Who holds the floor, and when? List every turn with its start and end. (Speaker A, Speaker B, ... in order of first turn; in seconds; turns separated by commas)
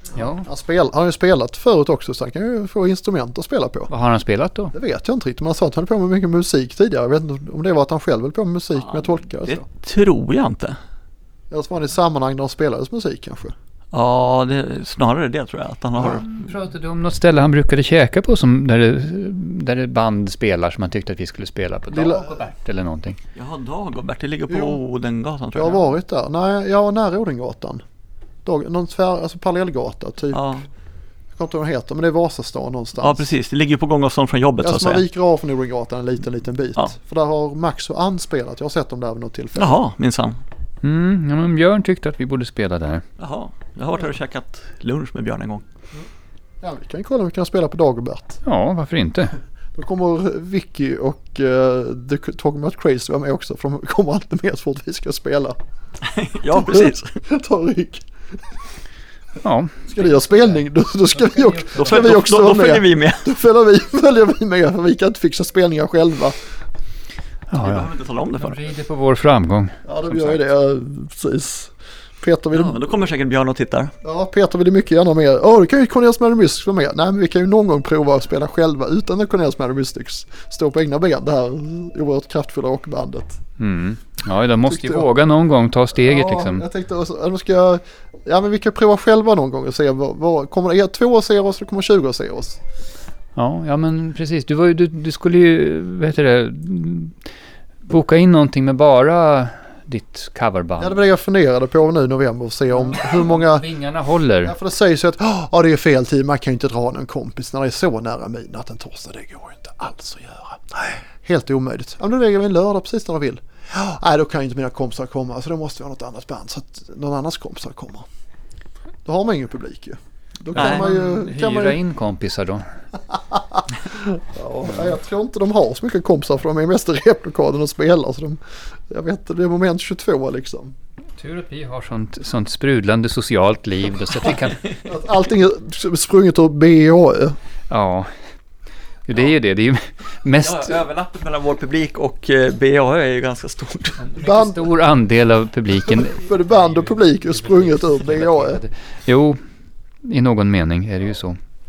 Speaker A: 0.1-0.4, Speaker B: 0.2-3.9, Speaker A: 3.9-4.7, Speaker B: 4.7-9.6, Speaker C: 8.9-10.8, Speaker B: 11.5-13.5, Speaker C: 13.9-16.3, Speaker A: 16.0-23.2, Speaker B: 21.9-22.5, Speaker C: 23.3-25.9, Speaker B: 24.5-24.8, Speaker B: 25.5-27.8, Speaker B: 28.4-30.5, Speaker C: 30.3-30.6, Speaker B: 31.4-33.2, Speaker C: 33.0-35.0, Speaker B: 34.6-39.8, Speaker C: 39.5-40.4, Speaker A: 40.8-43.0, Speaker C: 43.2-45.6, Speaker B: 46.6-48.4, Speaker A: 48.4-49.3, Speaker B: 49.7-55.6, Speaker C: 56.0-57.1, Speaker B: 56.5-58.0, Speaker A: 59.4-62.2, Speaker B: 59.9-66.3, Speaker C: 61.7-63.3, Speaker A: 67.5-70.4, Speaker C: 67.6-68.6, Speaker B: 69.8-72.8, Speaker C: 72.5-73.9, Speaker B: 74.0-83.4, Speaker A: 83.6-86.6, Speaker B: 84.7-85.1, Speaker B: 86.0-92.6, Speaker A: 93.3-97.1, Speaker A: 97.8-101.0, Speaker B: 100.8-103.7, Speaker A: 102.8-104.5, Speaker B: 104.4-118.0, Speaker B: 119.0-121.8, Speaker A: 120.5-122.6, Speaker C: 120.5-120.9, Speaker B: 123.9-128.4, Speaker B: 128.9-130.7, Speaker A: 131.2-134.6, Speaker B: 134.8-137.3, Speaker A: 137.7-138.1, Speaker A: 139.1-140.8, Speaker C: 140.4-144.0, Speaker A: 144.0-149.4, Speaker B: 144.2-144.7, Speaker B: 145.8-148.6, Speaker A: 150.0-151.4